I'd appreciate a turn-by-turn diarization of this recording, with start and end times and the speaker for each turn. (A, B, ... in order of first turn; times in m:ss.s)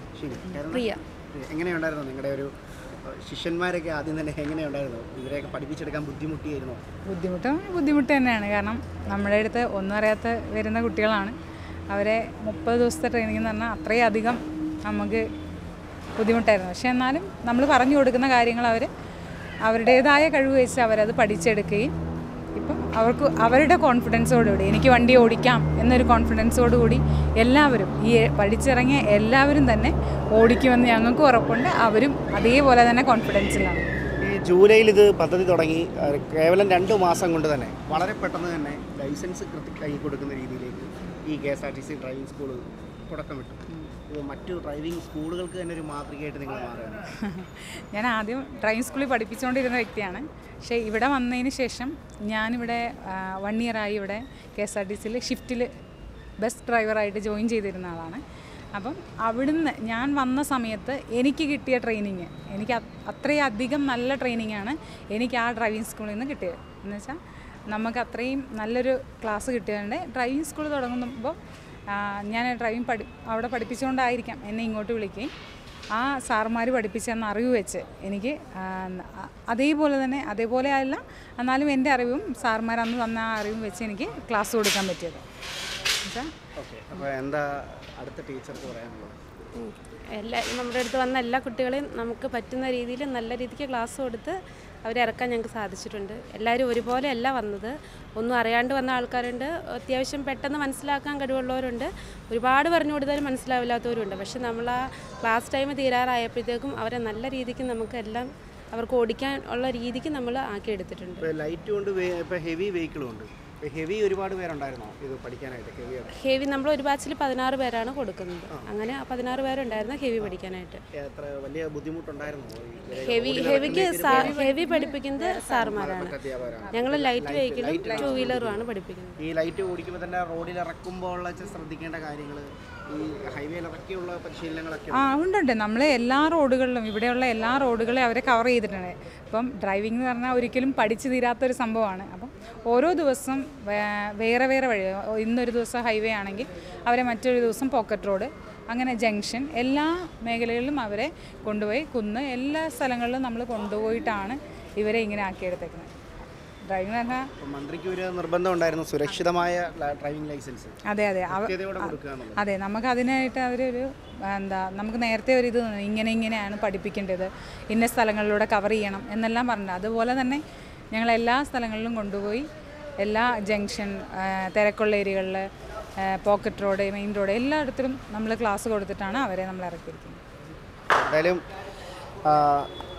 0:00.2-0:06.8 A
0:00.7-0:01.0 B
0:07.1-0:11.4 C
0:11.9-0:15.2 C
0:16.2-0:18.9 C
0:19.6-0:21.9 C
0:22.5-0:33.9 C
0:34.2-0:47.0 A
0:47.2-0:55.7 C
0:56.4-0:58.2 C
0:58.7-1:11.4 C
1:11.9-1:15.3 C
1:15.9-1:25.2 C
1:26.0-1:26.3 C
1:26.6-1:29.1 A
1:29.6-1:51.3 B
1:51.2-1:56.2 A
1:56.1-2:00.8 B
2:00.9-2:04.4 A
2:02.9-2:06.1 B
2:03.5-2:05.8 C
2:05.7-2:08.6 A
2:06.7-2:09.2 B
2:07.8-2:08.3 C
2:09.2-2:15.2 A
2:14.9-2:35.9 C
2:36.7-2:37.3 C
2:37.4-2:42.4 A
2:40.8-2:50.4 C
2:50.9-2:52.5 C
2:53.0-2:55.5 C
2:56.0-3:00.2 C
3:00.9-3:01.4 A
3:02.2-3:02.7 A